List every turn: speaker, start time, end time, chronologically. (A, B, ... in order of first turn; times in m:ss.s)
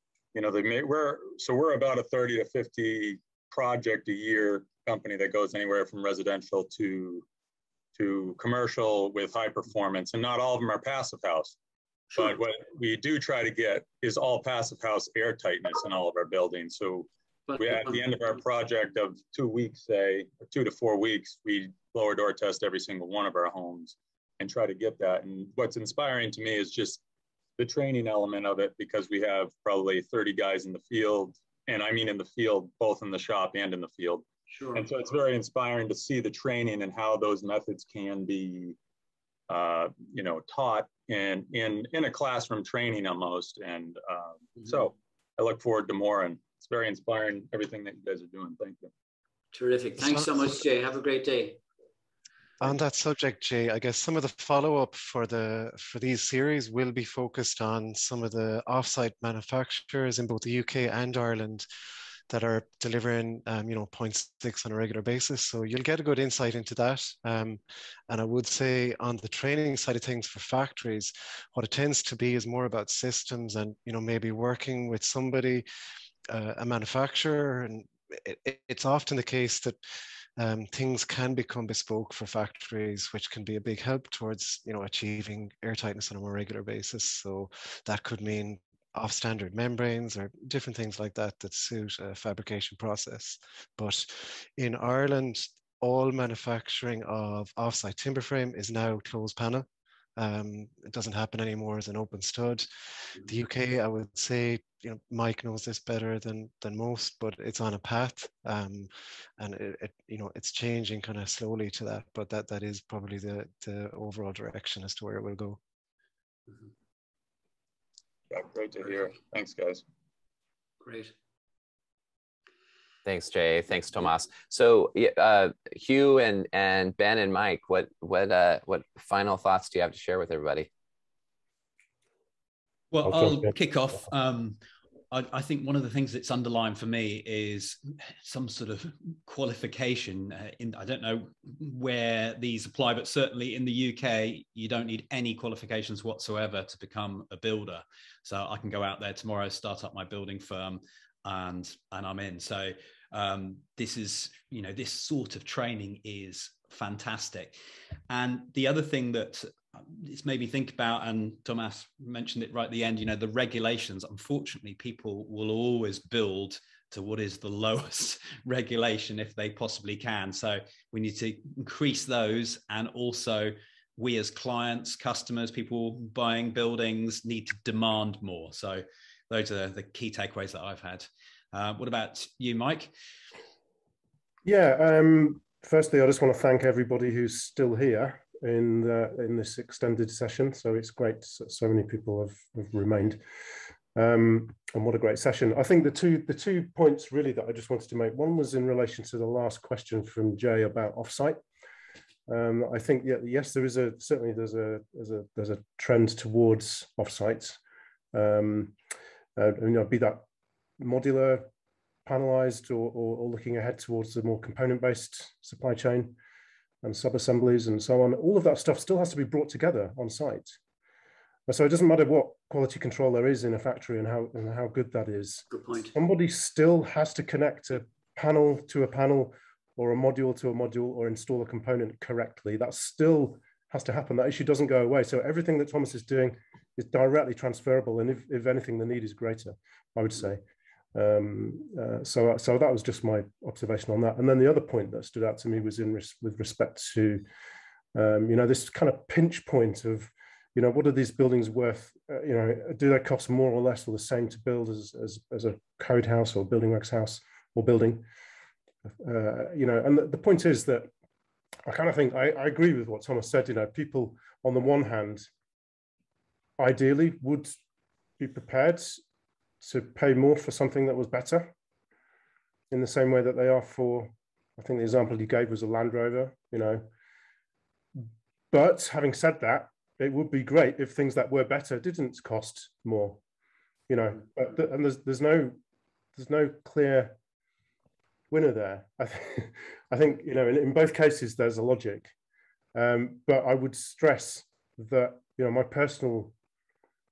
0:00.3-0:07.3 A
0:08.0-0:11.6 A
0:12.1-0:27.0 A
0:17.5-0:18.0 B
0:27.6-0:38.8 A
0:34.5-0:34.8 B
0:39.5-0:48.9 A
0:49.5-0:51.6 B
0:50.0-0:50.5 C
0:52.6-1:01.7 C
1:02.3-1:15.6 C
1:16.3-1:19.8 C
1:20.4-1:39.7 C
1:40.2-1:55.6 C
1:58.3-1:59.8 A
2:00.8-2:01.1 B
2:03.0-2:10.7 D
2:12.9-2:14.6 E
2:13.0-2:13.6 F
2:15.1-2:37.6 E
2:38.1-3:02.9 E
3:04.5-3:13.2 F
3:14.0-3:21.4 F
3:22.3-3:27.6 F
3:28.1-3:28.8 F
3:29.4-3:30.2 F
3:30.8-3:31.5 F
3:32.0-3:36.2 F
3:36.8-3:40.6 F
3:41.5-4:00.4 F
3:45.5-3:45.9 B
4:00.9-4:07.2 F
4:07.9-4:18.1 F
4:18.9-4:20.9 F
4:21.7-4:25.3 F
4:26.6-4:27.6 F
4:28.2-4:29.0 F
4:29.6-4:31.5 F
4:32.7-4:36.9 F
4:38.0-4:43.2 F
4:43.9-4:45.6 F
4:46.2-4:47.2 F
4:48.3-4:52.1 F
4:52.7-4:56.3 F